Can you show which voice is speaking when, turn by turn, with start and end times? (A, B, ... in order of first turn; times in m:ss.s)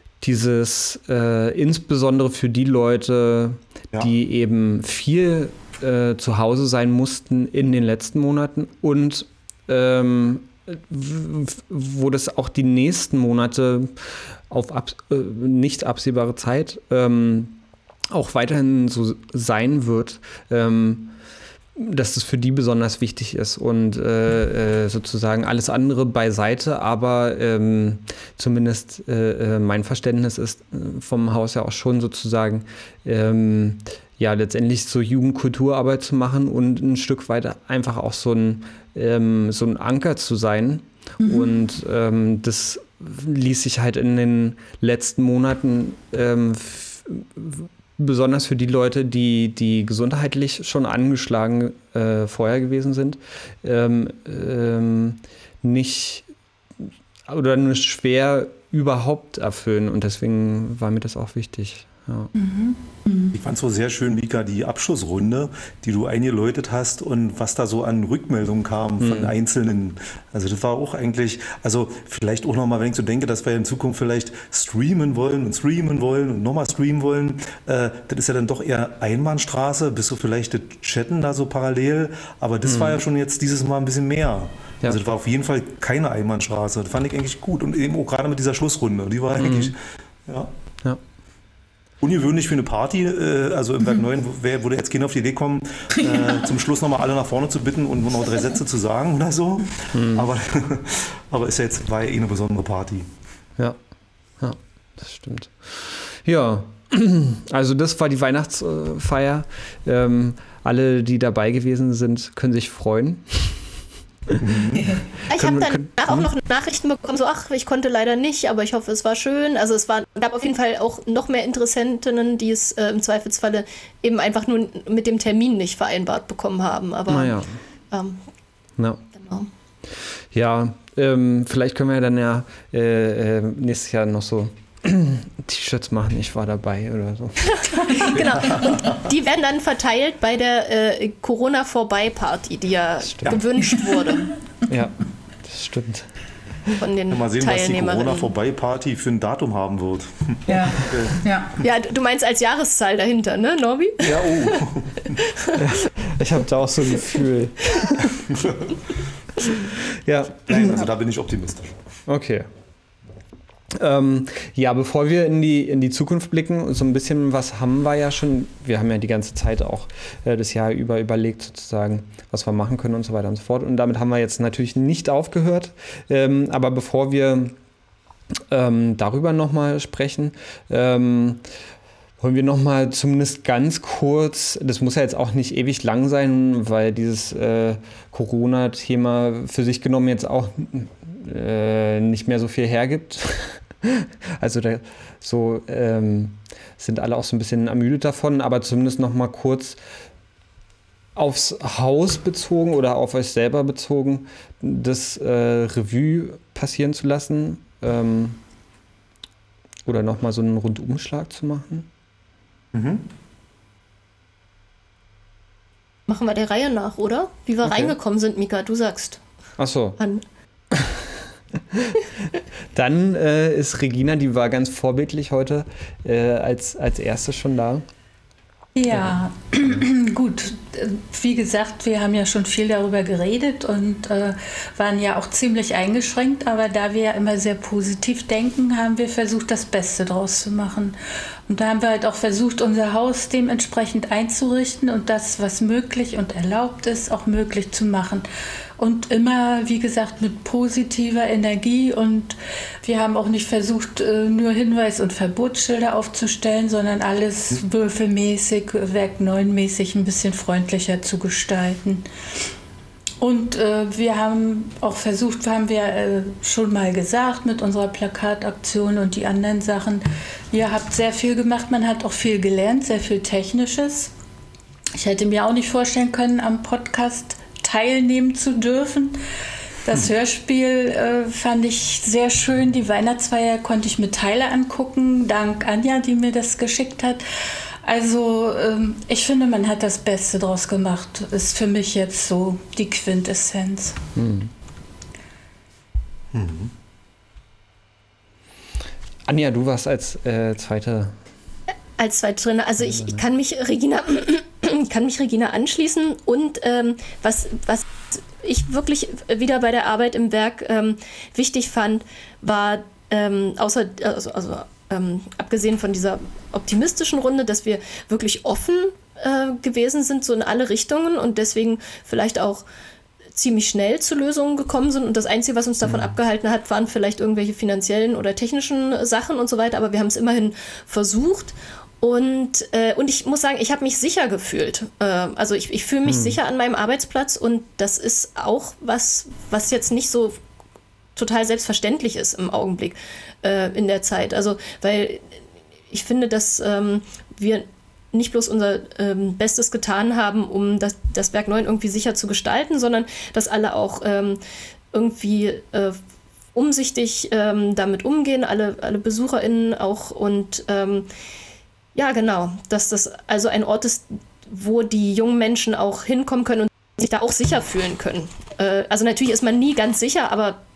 0:00.2-0:17.6 A
0:18.1-0:21.1 A
0:21.8-0:56.3 A
0:41.2-0:41.5 B
0:56.8-1:02.3 A
1:02.4-1:02.8 C
1:03.0-1:03.3 B
1:03.3-1:30.5 D
1:09.0-1:09.3 A
1:22.6-1:23.0 A
1:29.4-1:29.7 A
1:32.0-1:43.1 D
1:36.0-1:36.3 B
1:39.9-1:40.3 A
1:44.4-1:53.7 A
1:54.4-1:54.9 D
1:55.3-2:08.2 E
1:55.3-1:56.3 A
2:07.1-2:07.5 A
2:08.8-2:09.0 A
2:09.1-2:09.5 E
2:10.3-2:17.9 A
2:17.4-2:24.3 E
2:18.5-2:18.9 D
2:23.0-2:23.4 A
2:23.9-2:24.2 B
2:24.7-2:26.1 A
2:26.8-2:28.3 E
2:27.1-2:31.2 D
2:30.5-2:31.6 B
2:31.6-2:35.6 E
2:34.0-2:35.2 D
2:35.5-2:38.2 A
2:38.3-2:38.8 D
2:39.9-2:40.9 A
2:40.5-2:41.8 D
2:42.1-2:42.5 A
2:43.7-2:57.5 A
2:58.5-3:01.4 A
3:02.2-3:19.8 A
3:21.2-3:28.4 A
3:29.8-3:31.9 A
3:32.7-3:33.0 D
3:36.1-3:39.2 E
3:37.6-3:37.9 A
3:39.6-3:40.0 A
3:40.0-3:40.2 E
3:40.7-3:42.0 A
3:42.7-3:47.8 A
3:48.8-4:08.2 C
4:08.8-4:22.0 C
4:23.2-4:34.1 C
4:34.9-4:39.2 C
4:39.8-4:47.2 C
4:47.8-4:54.0 C
4:54.2-4:54.5 A
4:56.3-4:56.7 D
4:59.3-5:01.1 A
5:02.0-5:22.6 E
5:02.8-5:03.2 A
5:23.3-5:40.4 E
5:36.0-5:36.4 A
5:41.2-5:45.4 E
5:45.9-5:54.4 E
5:54.9-5:56.0 E
5:56.5-6:01.1 E
6:01.9-6:10.6 E